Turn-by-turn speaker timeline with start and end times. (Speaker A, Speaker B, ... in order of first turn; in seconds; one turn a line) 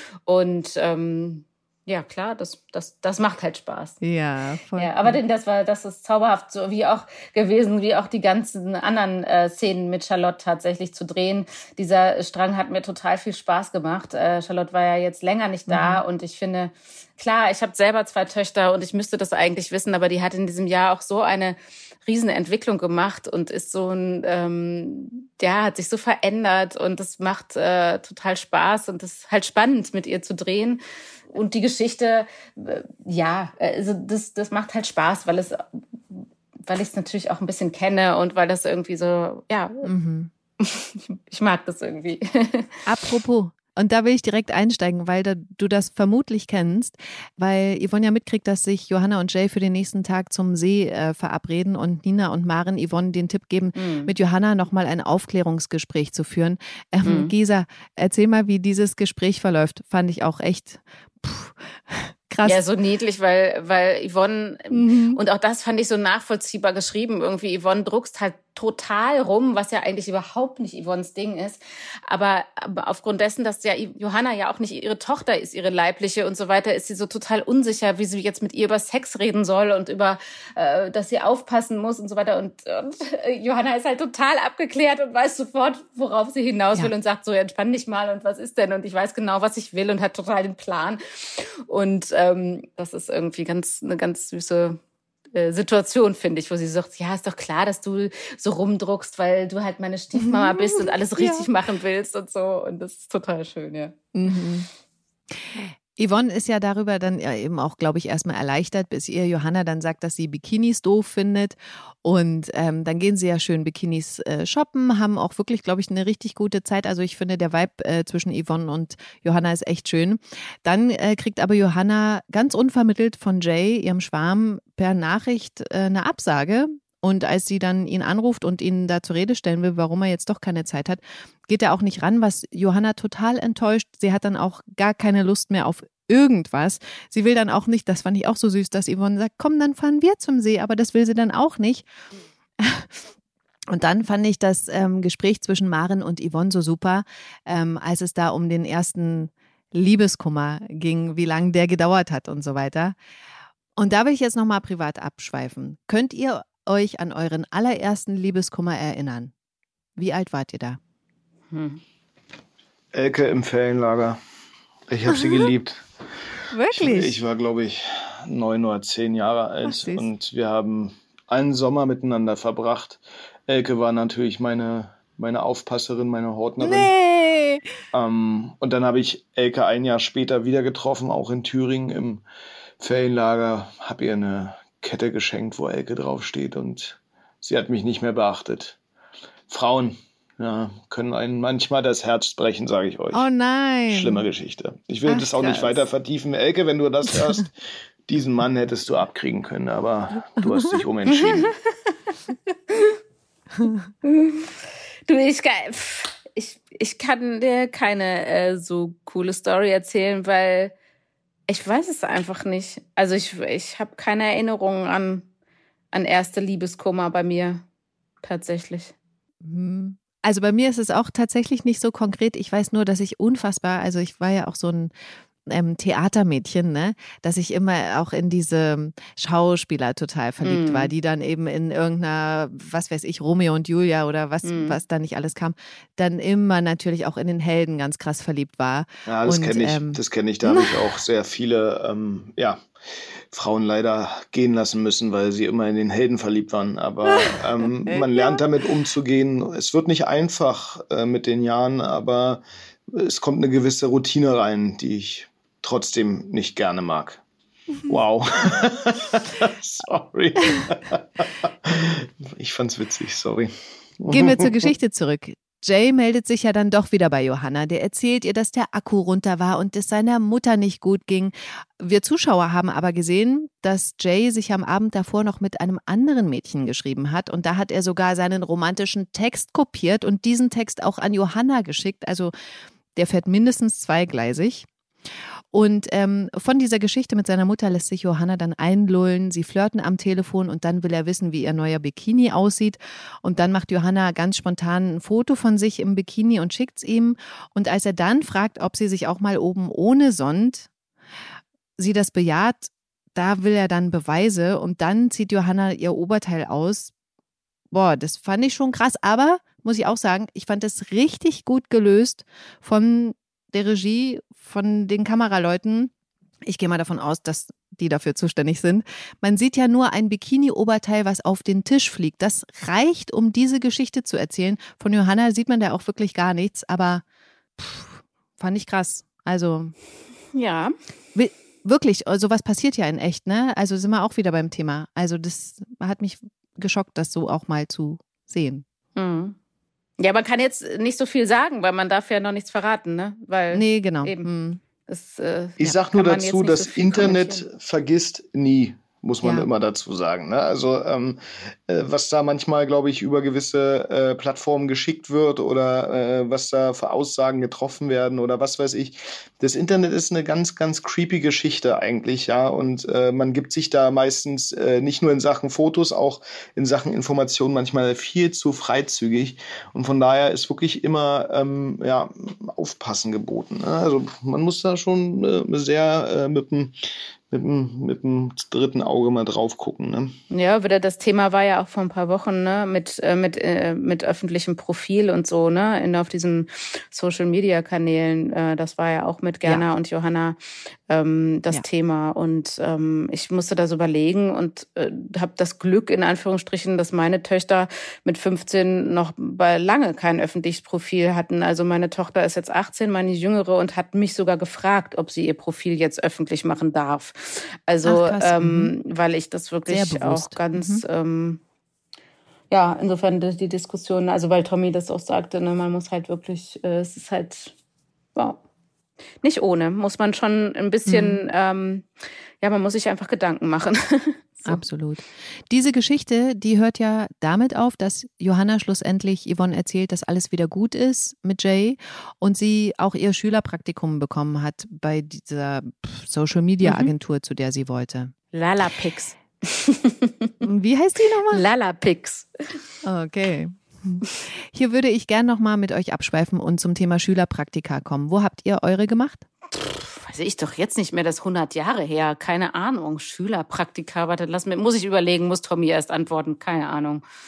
Speaker A: 0.3-4.0
Speaker B: 4.0-5.2
Speaker A: 4.8-39.9
Speaker B: 15.7-16.0
Speaker B: 39.8-40.3
Speaker A: 40.6-42.7
Speaker B: 42.9-62.6
Speaker A: 53.8-54.1
Speaker A: 57.0-57.3
Speaker A: 62.4-94.8
Speaker B: 64.7-65.2
Speaker A: 95.3-104.0
Speaker B: 100.2-101.5
Speaker B: 104.1-104.7
Speaker B: 106.0-141.9
Speaker B: 142.6-143.0
Speaker B: 143.7-153.0
Speaker B: 153.8-159.3
Speaker B: 160.0-160.8
Speaker A: 161.5-161.8
Speaker C: 162.9-164.2
Speaker C: 164.9-165.8
Speaker B: 166.5-167.2
Speaker C: 166.7-176.9
Speaker B: 169.7-170.1
Speaker B: 176.6-177.7
Speaker C: 177.9-182.2
Speaker C: 182.8-188.8
Speaker C: 189.5-193.2
Speaker B: 193.1-194.2
Speaker C: 193.9-197.5
Speaker B: 195.1-195.8
Speaker C: 198.1-201.5
Speaker A: 202.7-202.9
Speaker A: 204.0-204.6
Speaker A: 205.1-210.7
Speaker A: 211.5-215.2
Speaker A: 215.9-217.6
Speaker A: 218.2-218.9
Speaker B: 219.4-224.9
Speaker B: 225.5-240.9
Speaker A: 230.4-230.9
Speaker A: 234.4-234.8
Speaker C: 239.1-242.6
Speaker C: 243.3-257.2
Speaker B: 247.1-248.4
Speaker C: 257.9-264.7
Speaker B: 264.1-282.3
Speaker B: 282.9-284.7
Speaker B: 285.5-300.7
Speaker B: 301.8-306.9
Speaker B: 307.7-315.9
Speaker B: 316.5-327.0
Speaker B: 327.6-329.7
Speaker A: 330.3-330.7
Speaker B: 331.1-338.6
Speaker A: 339.0-339.4
Speaker A: 340.0-344.3
Speaker B: 343.5-344.6
Speaker A: 344.9-347.4
Speaker C: 345.6-376.8
Speaker B: 349.2-349.5
Speaker C: 377.3-380.2
Speaker A: 380.3-390.4
Speaker A: 390.9-411.4
Speaker B: 407.8-408.7
Speaker B: 409.7-410.8
Speaker A: 412.5-417.5
Speaker A: 419.2-421.9
Speaker B: 420.9-421.2
Speaker A: 422.4-424.6
Speaker B: 424.5-438.1
Speaker A: 438.3-440.4
Speaker B: 440.4-441.4
Speaker A: 441.3-442.3
Speaker B: 442.8-449.2
Speaker A: 449.5-457.0